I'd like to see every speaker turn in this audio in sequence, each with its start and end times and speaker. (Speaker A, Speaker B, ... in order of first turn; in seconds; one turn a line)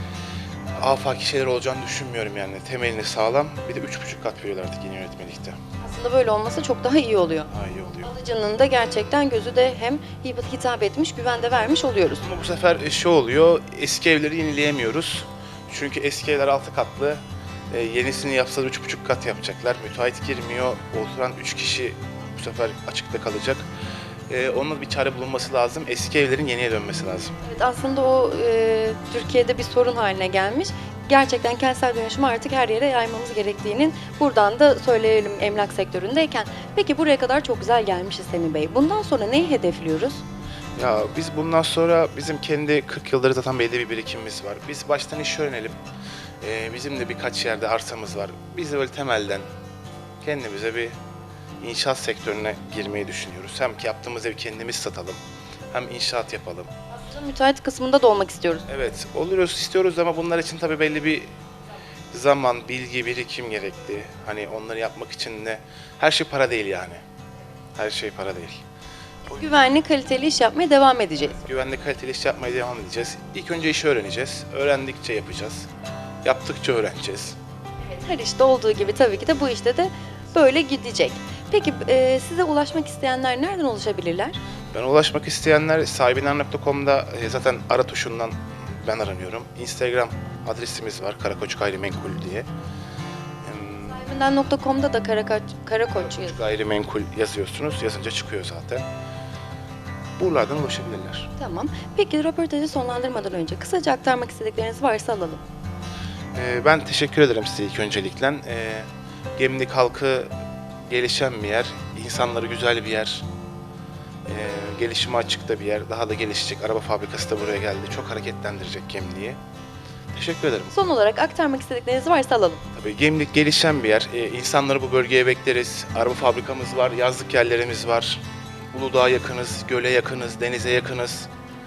Speaker A: 0.8-5.6
Speaker B: 5.8-7.5
Speaker A: 7.5-8.1
Speaker B: 8.0-12.2
Speaker A: 12.2-23.7
Speaker A: 24.3-27.3
Speaker B: 27.4-40.2
Speaker A: 40.8-45.8
Speaker A: 46.4-49.5
Speaker A: 50.2-51.0
Speaker A: 51.6-56.7
Speaker B: 56.9-58.6
Speaker A: 58.7-61.3
Speaker A: 62.1-67.0
Speaker A: 67.8-68.6
Speaker B: 69.3-71.3
Speaker A: 71.3-75.7
Speaker A: 76.2-77.4
Speaker B: 77.8-84.4
Speaker A: 84.7-92.5
Speaker A: 93.4-94.0
Speaker B: 93.9-96.4
Speaker A: 96.0-98.8
Speaker A: 100.2-101.3
Speaker B: 101.4-105.4
Speaker A: 106.3-110.3
Speaker A: 110.9-113.3
Speaker A: 114.3-119.4
Speaker A: 120.1-120.7
Speaker B: 120.7-122.6
Speaker A: 122.7-131.3